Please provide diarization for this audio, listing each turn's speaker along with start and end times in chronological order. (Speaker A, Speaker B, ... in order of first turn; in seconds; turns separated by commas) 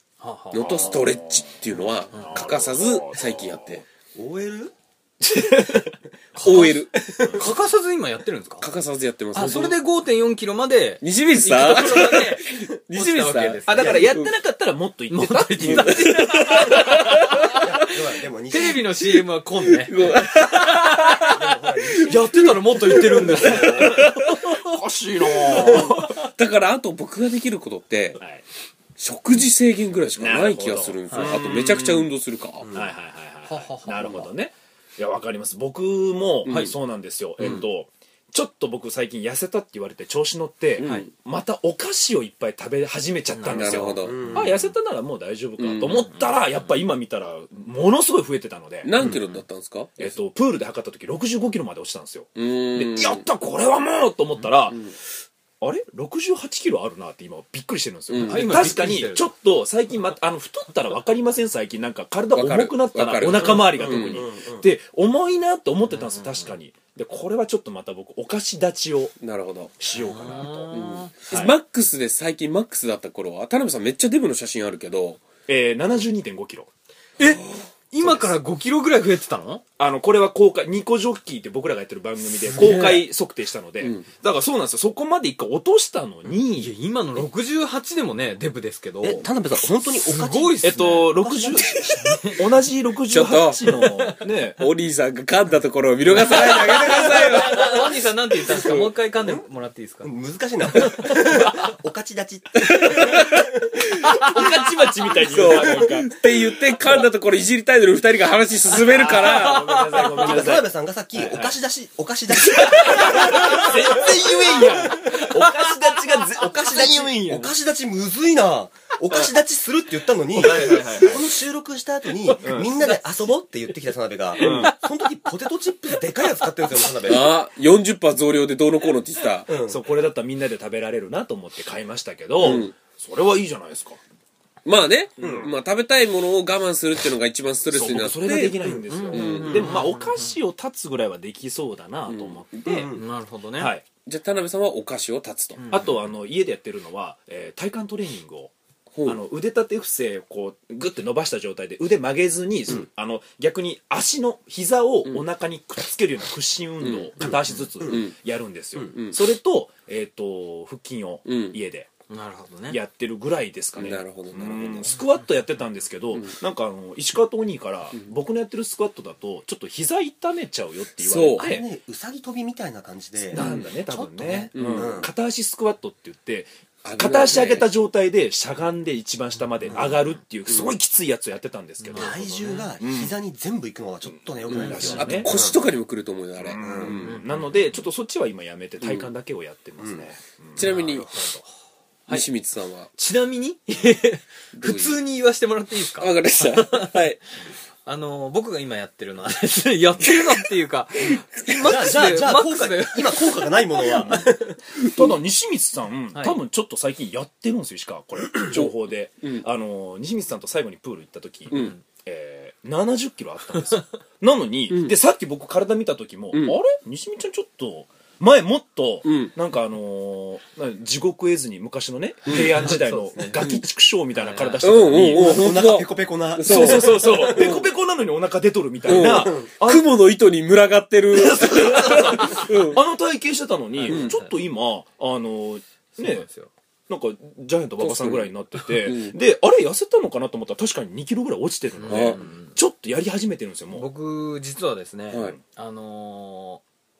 Speaker A: 0.2-0.9, Speaker B: 0.5-3.8, Speaker C: 0.6-1.4, Speaker C: 2.1-3.6, Speaker D: 4.1-4.7, Speaker C: 5.2-5.9, Speaker A: 6.3-8.7, Speaker B: 6.4-7.3, Speaker C: 7.2-7.5, Speaker B: 8.6-9.8, Speaker A: 9.3-14.1, Speaker B: 11.0-14.3, Speaker C: 13.7-16.9, Speaker D: 13.8-14.1, Speaker A: 15.1-17.0, Speaker B: 15.6-17.6, Speaker D: 17.5-18.9, Speaker A: 18.5-24.4, Speaker B: 19.8-21.3, Speaker D: 21.2-22.3, Speaker B: 21.9-24.6, Speaker C: 23.4-26.2, Speaker A: 25.4-26.2, Speaker B: 25.4-28.2, Speaker B: 29.0-32.7, Speaker C: 30.2-32.1, Speaker D: 32.6-32.9, Speaker C: 32.7-48.9, Speaker A: 33.5-34.3, Speaker B: 34.0-34.2, Speaker B: 36.4-36.7, Speaker A: 36.5-36.7, Speaker B: 40.8-41.1, Speaker A: 40.8-41.1, Speaker A: 43.3-43.8, Speaker B: 43.4-44.5, Speaker D: 44.0-44.7, Speaker B: 45.6-46.1, Speaker B: 48.8-50.1, Speaker C: 50.0-54.8, Speaker B: 52.4-53.2, Speaker B: 54.6-54.9, Speaker C: 55.6-69.1, Speaker B: 58.1-58.8, Speaker A: 58.2-59.3, Speaker B: 62.3-64.2, Speaker D: 63.3-64.7, Speaker B: 69.2-69.7, Speaker C: 69.8-71.5, Speaker A: 70.0-71.3, Speaker B: 70.7-75.2, Speaker C: 75.5-76.7, Speaker A: 77.2-79.6, Speaker C: 78.0-78.3, Speaker C: 79.8-86.7, Speaker A: 82.4-83.0, Speaker B: 83.8-84.1, Speaker A: 86.4-89.3, Speaker D: 89.0-92.0, Speaker A: 90.0-91.1, Speaker C: 90.6-94.6, Speaker A: 91.9-92.4, Speaker B: 93.1-93.7, Speaker B: 94.6-98.9, Speaker D: 96.2-97.6, Speaker A: 96.2-100.1, Speaker D: 100.0-103.8, Speaker B: 102.6-104.4, Speaker C: 104.0-106.2, Speaker B: 105.2-110.4, Speaker D: 105.5-105.9, Speaker C: 108.7-111.5, Speaker A: 109.4-110.0, Speaker D: 110.1-115.2, Speaker C: 112.4-117.5, Speaker A: 113.2-114.0, Speaker A: 114.5-115.7, Speaker D: 116.4-127.3, Speaker C: 120.3-121.2, Speaker C: 122.4-123.3, Speaker C: 124.4-124.7, Speaker B: 127.0-129.5, Speaker D: 129.5-129.8, Speaker C: 129.6-134.0, Speaker B: 132.4-132.7, Speaker B: 134.6-138.6, Speaker D: 135.2-135.5, Speaker C: 135.2-135.5, Speaker C: 137.7-142.9, Speaker A: 138.9-140.3, Speaker B: 139.1-139.7, Speaker B: 142.1-142.8, Speaker D: 142.6-143.0, Speaker A: 142.9-143.7, Speaker C: 143.6-143.8, Speaker B: 144.1-145.6, Speaker A: 145.6-145.9, Speaker C: 145.7-148.5, Speaker B: 148.9-149.2, Speaker C: 149.0-161.9, Speaker B: 156.8-158.1, Speaker D: 157.2-158.0, Speaker B: 158.8-159.2, Speaker B: 161.2-161.6, Speaker A: 162.1-162.8, Speaker C: 162.7-171.7, Speaker B: 163.8-164.9, Speaker B: 171.0-171.4, Speaker D: 171.3-173.4, Speaker C: 173.3-183.2, Speaker A: 173.3-174.5, Speaker B: 174.5-175.0, Speaker D: 174.7-175.1, Speaker B: 176.8-177.7, Speaker B: 180.5-180.7, Speaker D: 181.9-185.7, Speaker A: 181.9-182.7, Speaker C: 184.4-185.4, Speaker B: 184.5-187.2, Speaker A: 184.6-185.2, Speaker C: 186.4-190.7, Speaker D: 186.6-187.2, Speaker B: 188.8-189.1, Speaker D: 189.8-190.1, Speaker B: 190.6-191.1, Speaker A: 190.6-191.5, Speaker B: 192.1-192.9, Speaker A: 192.9-197.0, Speaker B: 194.6-195.0, Speaker B: 196.0-197.2, Speaker A: 197.8-204.3, Speaker B: 200.1-200.4, Speaker B: 201.1-201.8, Speaker D: 201.6-204.6, Speaker C: 204.0-204.3, Speaker C: 204.9-225.5, Speaker A: 206.1-206.4, Speaker B: 208.4-209.4, Speaker B: 211.5-211.8, Speaker A: 211.5-211.8, Speaker B: 214.7-214.9, Speaker B: 216.3-216.6, Speaker B: 219.0-219.3, Speaker B: 222.2-222.8, Speaker A: 222.6-223.4, Speaker B: 223.4-223.6, Speaker A: 224.1-224.7, Speaker B: 224.6-227.6, Speaker D: 224.9-227.6, Speaker C: 226.4-229.8, Speaker B: 228.8-232.8, Speaker D: 228.9-229.5, Speaker C: 231.1-236.3, Speaker D: 231.6-232.1, Speaker A: 233.8-234.3, Speaker B: 233.9-234.1, Speaker A: 236.0-236.5, Speaker C: 236.9-243.9, Speaker B: 237.8-239.2, Speaker A: 241.8-242.6, Speaker B: 241.9-242.2, Speaker A: 243.7-246.6, Speaker B: 245.1-245.3